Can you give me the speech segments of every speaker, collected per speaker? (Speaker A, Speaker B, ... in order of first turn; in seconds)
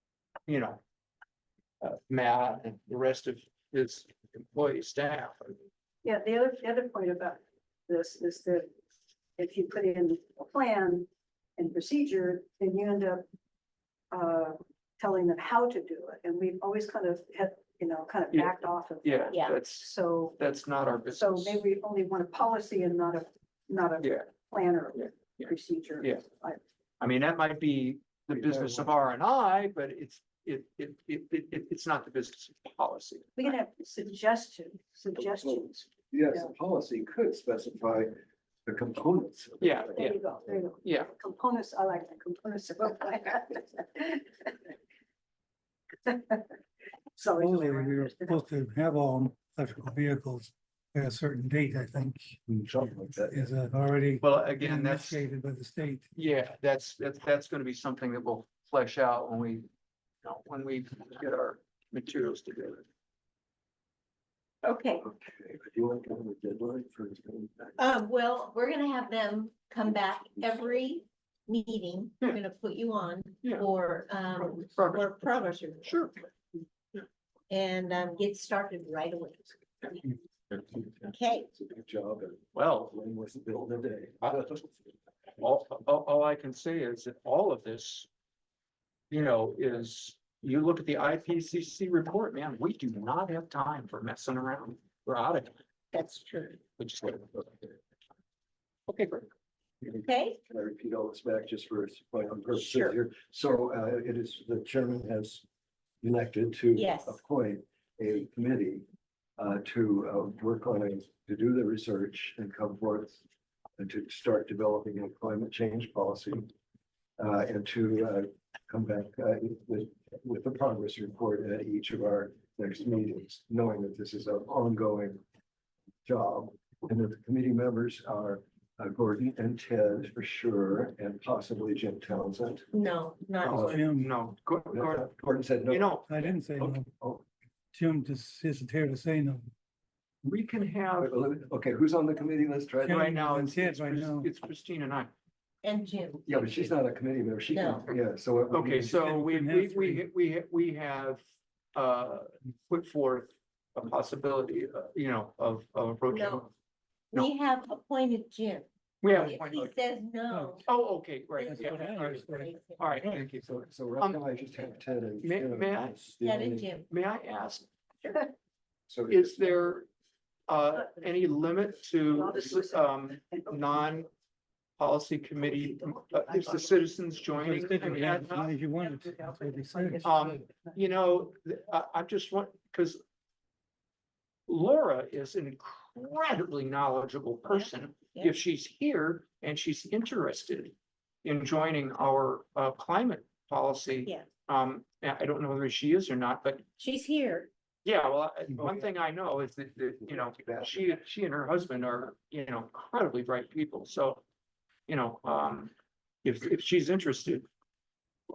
Speaker A: 0.5-0.8, 1.8-5.6, 18.3-21.6, 24.0-24.3, 24.9-26.2, 27.0-33.5, 39.6-40.2, 40.8-41.1, 54.2-55.2, 56.1-59.7, 60.2-62.9, 74.4-75.2, 75.8-76.2, 82.5-82.9, 85.4-88.1, 89.1-95.6, 96.8-97.6, 98.9-99.3, 133.9-135.1, 135.7-136.4, 140.2-141.1, 142.9-145.1, 148.5-151.2, 151.7-156.5, 159.0-159.7, 160.7-164.2, 165.2-165.9, 166.9-167.7, 169.1-169.9, 170.5-174.1, 174.8-178.5, 180.0-183.0, 184.5-196.6, 197.8-204.2, 204.9-205.7, 206.2-207.4
Speaker B: 6.0-8.7, 9.4-13.2, 14.1-20.4, 21.1-26.6, 33.4-36.5, 39.8-44.7, 46.0-46.5, 47.1-48.4, 172.1-173.5, 175.6-178.1, 178.7-180.8
Speaker C: 28.3-28.9, 35.2-40.1, 52.5-53.5, 65.0-67.8, 80.6-84.9, 99.8-105.4, 106.0-108.8, 109.4-113.2, 113.8-116.5, 117.2-125.2, 126.0-132.7, 133.5-133.8, 134.7-136.0, 136.6-137.2, 141.0-143.3, 146.2-148.9, 163.3-166.7, 168.9-169.6, 198.6-198.9, 200.0-200.8
Speaker D: 47.3-52.4, 53.3-56.1, 133.4-134.1, 136.1-136.9, 137.7-139.4, 142.8-144.3, 148.8-150.0, 160.3-160.6, 161.4-163.3, 177.3-180.1
Speaker E: 64.6-65.0, 67.8-76.0, 76.9-80.0, 81.1-81.5, 95.9-96.6, 100.0-100.4, 102.5-102.9, 106.7-107.2, 132.7-133.8, 145.6-146.7, 147.5-147.8, 156.1-156.4, 157.1-160.6, 161.4-162.9, 166.2-166.9, 196.8-197.5